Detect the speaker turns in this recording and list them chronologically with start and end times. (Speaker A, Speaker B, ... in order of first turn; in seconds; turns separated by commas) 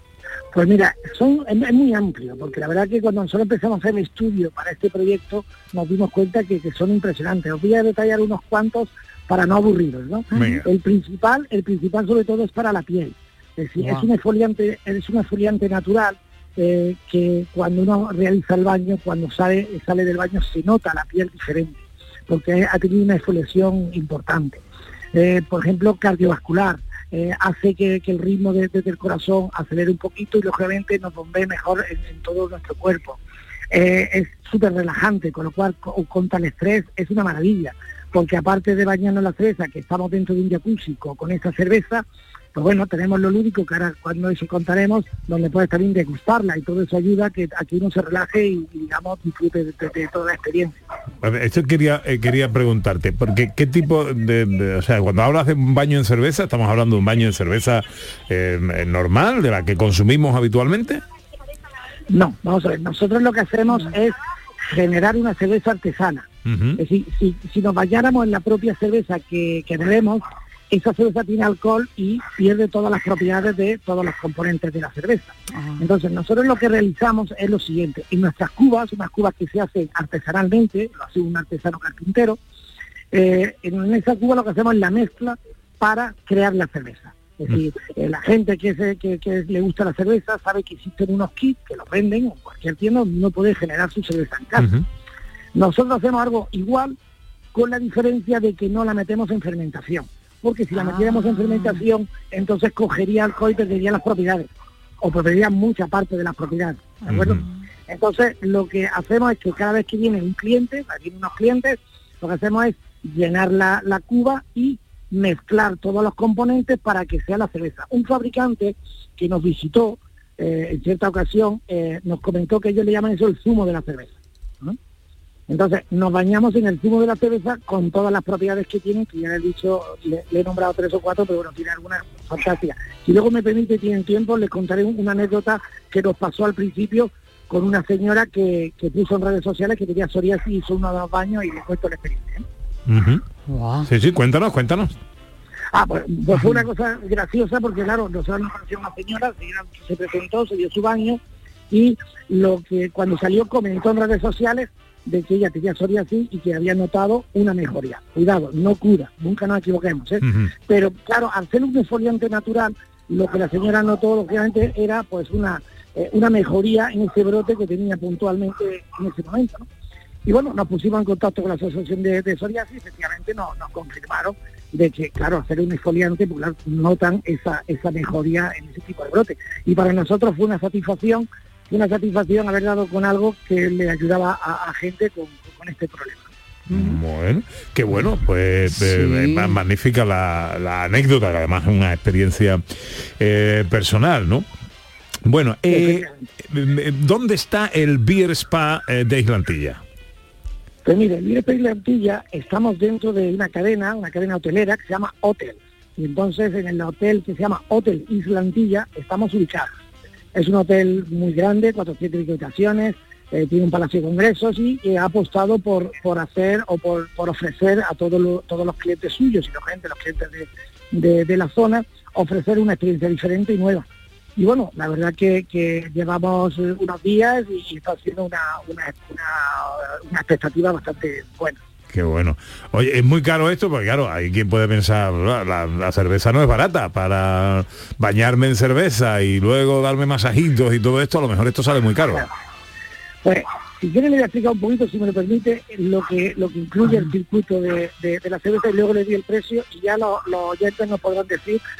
Speaker A: 0.5-24.6, Speaker B: 10.3-10.6, Speaker C: 10.3-10.6, Speaker B: 13.8-14.1, Speaker A: 25.1-33.2, Speaker A: 33.7-50.8, Speaker C: 51.2-61.0, Speaker A: 62.1-64.2, Speaker A: 64.7-66.2, Speaker C: 66.4-66.8, Speaker A: 66.8-82.4, Speaker B: 75.5-75.8, Speaker A: 83.1-94.7, Speaker C: 94.6-94.8, Speaker A: 95.5-97.0, Speaker A: 97.5-104.5, Speaker B: 100.8-101.7, Speaker A: 105.0-124.8, Speaker C: 107.1-107.4, Speaker A: 125.5-142.4, Speaker C: 142.9-143.2, Speaker B: 143.5-143.9, Speaker C: 143.9-144.9, Speaker A: 145.7-169.7, Speaker C: 160.2-160.5, Speaker A: 170.2-186.3, Speaker C: 186.7-192.6, Speaker B: 186.7-187.0, Speaker B: 188.7-189.6, Speaker C: 193.2-194.4, Speaker C: 195.2-199.8, Speaker A: 195.7-196.2, Speaker A: 200.8-209.7, Speaker A: 210.3-231.6, Speaker C: 231.9-242.3, Speaker A: 243.2-251.6